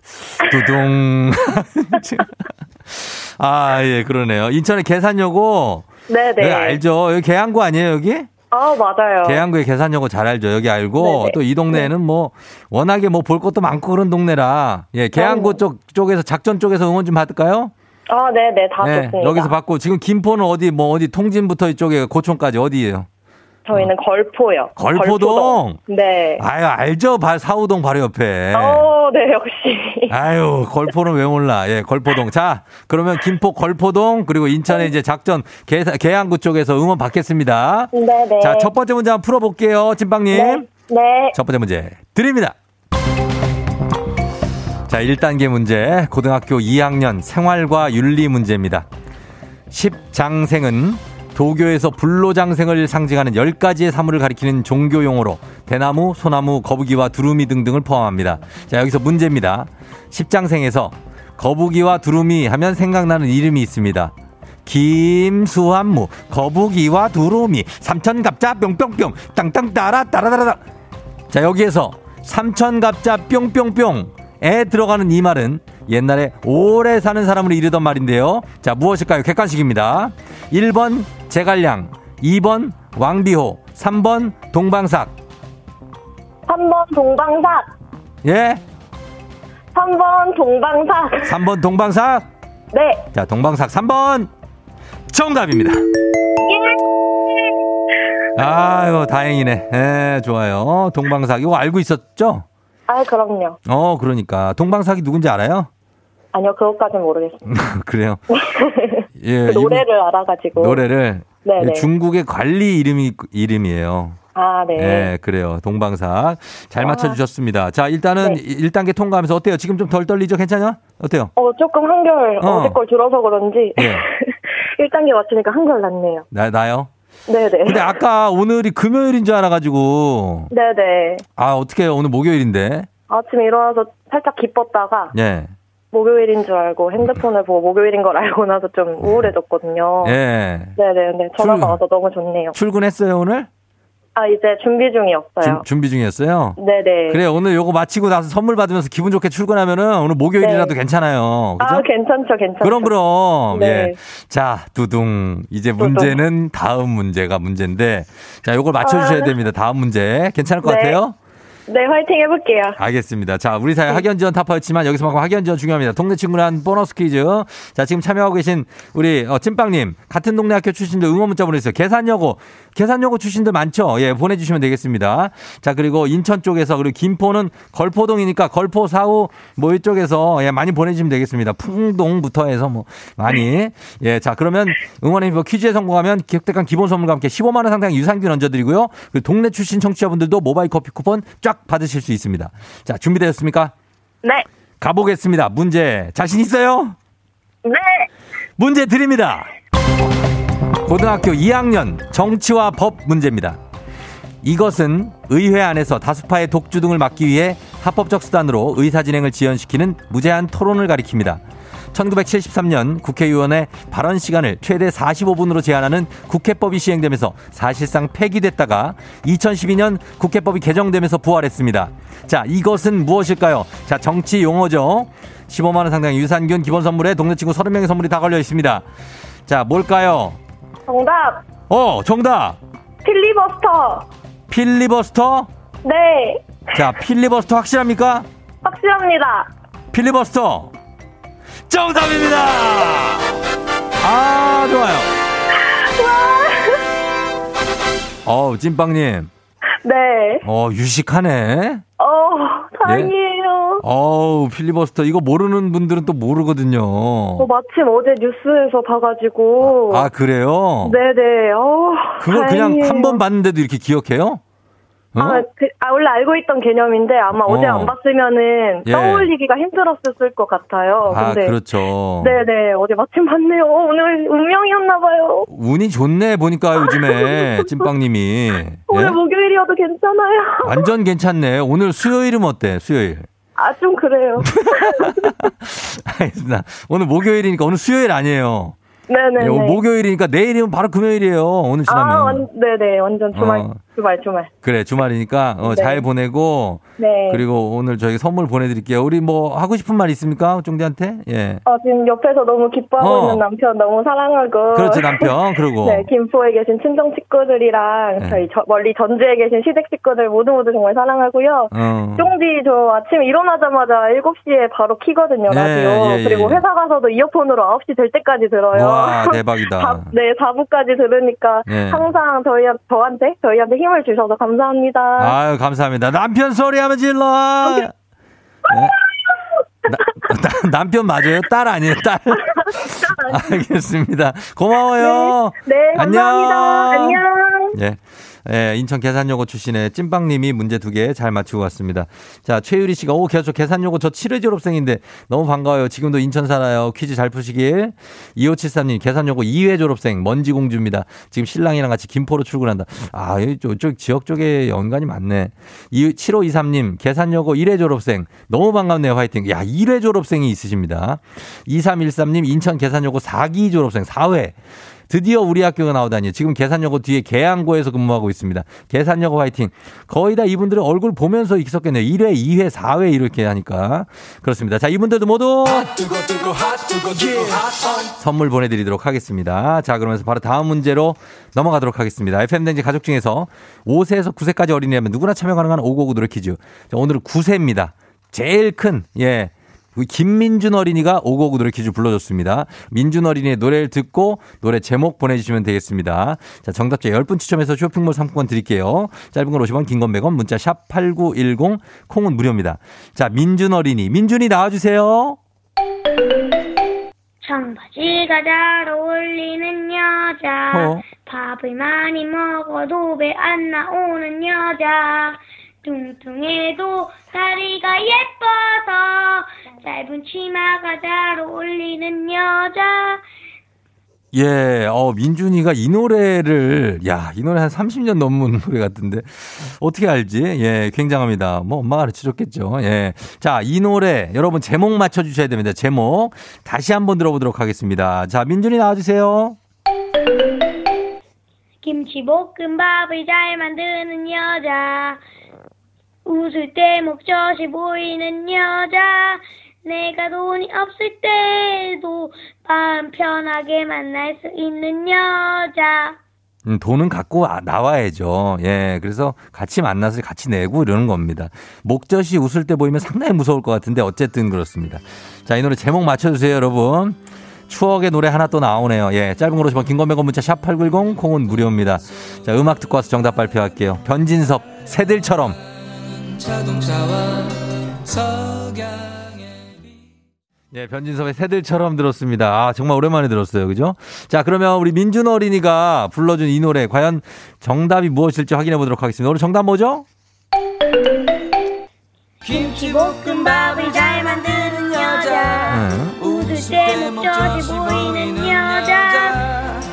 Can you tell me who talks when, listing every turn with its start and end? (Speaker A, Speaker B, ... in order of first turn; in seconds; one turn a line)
Speaker A: 0.2-2.3
Speaker A: 2.9-5.9
Speaker B: 6.1-6.8
Speaker A: 6.4-8.3
Speaker B: 8.5-9.4
Speaker A: 9.2-17.7
Speaker B: 11.0-11.9
Speaker B: 15.2-15.6
Speaker B: 18.1-19.5
Speaker A: 18.8-23.1
Speaker B: 23.7-26.4
Speaker A: 24.8-25.8
Speaker A: 26.4-28.9
Speaker B: 28.5-30.1
Speaker A: 30.1-40.7
Speaker B: 37.9-38.7
Speaker B: 40.3-41.4
Speaker A: 41.3-42.6
Speaker A: 44.9-48.9
Speaker A: 49.7-64.1
Speaker A: 64.7-70.6
Speaker A: 71.3-85.1
Speaker B: 86.5-87.7
Speaker A: 88.2-88.6
Speaker B: 89.8-91.3
Speaker A: 91.2-92.3
Speaker B: 92.7-93.0
Speaker A: 93.1-94.3
Speaker A: 95.1-95.8
Speaker B: 96.5-96.8
Speaker A: 98.4-102.5
Speaker B: 102.9-103.6
Speaker A: 103.7-105.7
Speaker B: 106.3-107.4
Speaker A: 107.5-108.2
Speaker B: 108.4-110.8
Speaker A: 109.2-109.9
Speaker A: 110.6-114.2
Speaker B: 111.4-111.9
Speaker B: 114.3-115.1
Speaker A: 114.8-121.3
Speaker B: 116.8-117.2
Speaker B: 121.4-126.3
Speaker A: 122.4-122.8
Speaker A: 123.8-124.0
Speaker A: 126.3-126.9
Speaker B: 127.3-127.9
Speaker A: 127.6-130.5
Speaker B: 130.5-131.2
Speaker A: 131.4-132.9
Speaker B: 133.1-135.1
Speaker A: 135.1-135.5
Speaker B: 135.9-140.1
Speaker A: 139.0-139.3
Speaker A: 140.0-140.8
Speaker B: 140.8-142.5
Speaker A: 141.4-141.8
Speaker A: 142.5-143.5
Speaker B: 144.2-145.6
Speaker A: 145.4-146.6
Speaker B: 146.6-147.2
Speaker A: 147.1-151.8
Speaker B: 150.4-150.7
Speaker B: 151.6-152.9
Speaker A: 152.6-161.2
Speaker B: 153.5-153.9
Speaker B: 155.8-156.2
Speaker B: 158.8-159.3
Speaker B: 160.6-161.0
Speaker B: 161.7-162.8
Speaker A: 162.8-193.7
Speaker A: 194.8-197.0
Speaker B: 197.7-198.1
Speaker A: 198.6-199.5
Speaker A: 200.8-203.6
Speaker A: 204.4-211.4
Speaker A: 211.9-228.8
Speaker A: 229.5-230.4
Speaker B: 230.9-231.4
Speaker A: 231.7-232.6
Speaker B: 233.1-234.1
Speaker A: 234.5-235.5
Speaker B: 235.8-236.8
Speaker A: 236.7-238.3
Speaker B: 238.7-239.5
Speaker A: 239.9-240.7
Speaker A: 241.7-243.3
Speaker A: 244.0-245.1
Speaker B: 245.6-246.8
Speaker A: 248.2-249.3
Speaker B: 249.8-250.4
Speaker A: 250.4-251.8
Speaker B: 252.0-253.8
Speaker A: 252.8-253.1
Speaker A: 253.8-257.5
Speaker B: 257.4-260.1
Speaker A: 259.6-261.0
Speaker B: 260.8-263.2
Speaker A: 262.2-264.4
Speaker A: 265.1-265.4
Speaker B: 265.2-271.6
Speaker A: 267.3-267.9
Speaker A: 268.9-269.3
Speaker A: 271.1-272.4
Speaker B: 272.2-275.5
Speaker A: 275.5-279.2
Speaker B: 276.8-277.7
Speaker B: 278.9-280.8
Speaker A: 280.6-283.2
Speaker B: 283.6-285.3
Speaker A: 284.4-288.8
Speaker B: 289.1-289.8
Speaker A: 289.4-292.5
Speaker B: 291.9-294.5
Speaker A: 293.3-293.8
Speaker A: 294.6-301.6
Speaker B: 295.7-296.0
Speaker B: 297.0-297.4
Speaker B: 301.7-325.4
Speaker A: 303.0-303.4
Speaker A: 304.7-306.1
Speaker A: 308.2-308.4
Speaker A: 311.7-312.3
Speaker A: 315.5-316.6
Speaker A: 318.7-320.1
Speaker A: 321.7-322.1
Speaker A: 325.2-327.9
Speaker A: 328.7-328.9
Speaker A: 329.9-337.2
Speaker B: 332.8-333.6
Speaker B: 335.0-337.8
Speaker A: 337.7-364.6
Speaker A: 365.1-375.9
Speaker C: 375.9-377.6
Speaker A: 378.0-405.4
Speaker D: 407.4-423.2
Speaker A: 410.7-411.0
Speaker A: 424.3-439.6
Speaker D: 441.8-445.2
Speaker D: 446.3-456.2
Speaker A: 456.7-475.6
Speaker C: 476.4-477.5
Speaker C: 478.2-478.9
Speaker A: 480.7-490.1
Speaker D: 492.4-499.4
Speaker C: 492.5-495.7
Speaker A: 495.7-496.2
Speaker C: 496.2-499.6